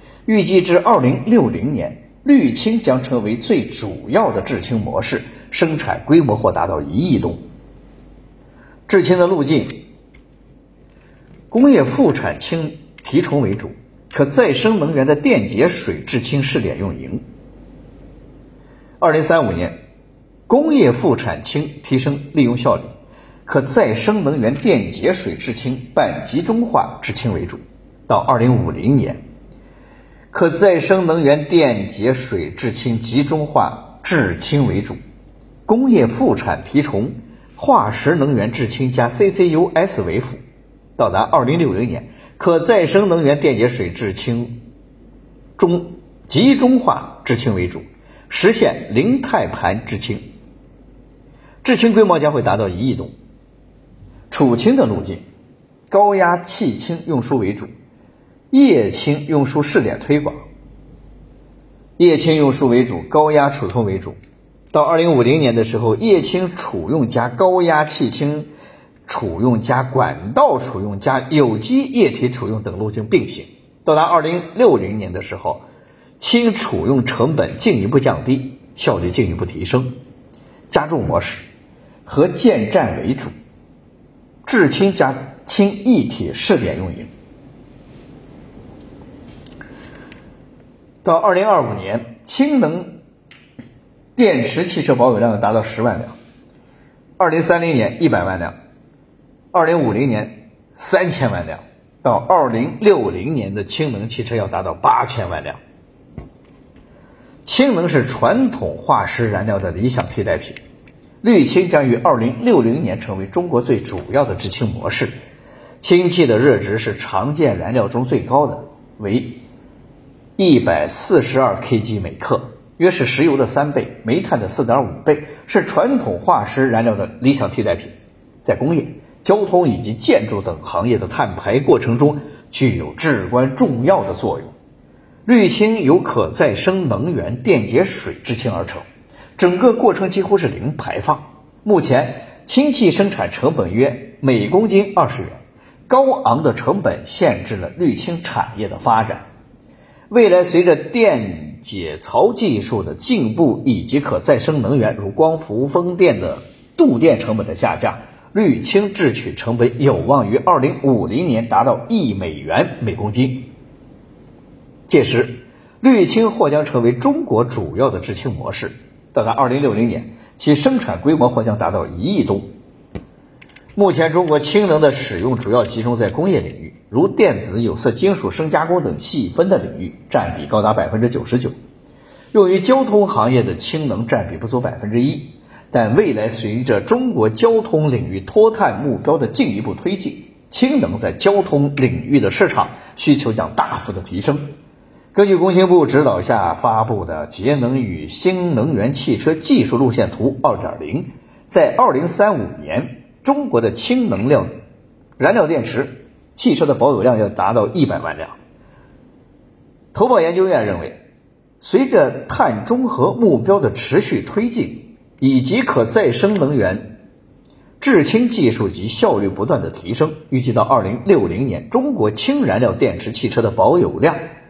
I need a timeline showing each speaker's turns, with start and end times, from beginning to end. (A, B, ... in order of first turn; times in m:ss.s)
0:00.3-0:07.4 A
0:08.9-0:09.9 A
0:11.5-0:17.2 A
0:19.0-0:19.8 A
0:20.5-0:22.9 A
0:23.5-0:29.2 A
0:30.3-0:35.0 A
0:35.7-0:40.4 A
0:41.0-0:44.6 A
0:45.6-0:50.2 A
0:51.6-0:53.1 A
0:54.3-0:55.2 A
0:55.9-0:57.7 A
0:58.5-1:00.4 A
1:02.0-1:04.2 A
1:04.7-1:08.5 A
1:09.1-1:15.6 A
1:16.2-1:19.9 A
1:20.7-1:21.5 A
1:22.1-1:23.3 A
1:24.4-1:27.1 A
1:31.0-1:33.0 A
1:34.2-1:36.2 A
1:37.2-1:38.6 A
1:39.5-1:45.6 A
1:47.4-1:50.6 A
1:51.2-1:55.1 A
1:55.8-1:59.4 A
2:00.4-2:07.9 A
2:08.4-2:14.5 A
2:15.3-2:18.8 A
2:19.4-2:29.2 A
2:30.1-2:43.5 A
2:44.9-2:52.5 A
2:53.8-3:01.5 A
3:02.3-3:14.5 A
3:15.1-3:24.5 A
3:25.2-3:28.4 A
3:29.9-3:31.0 A
3:31.6-3:37.0 A
3:37.8-3:44.2 A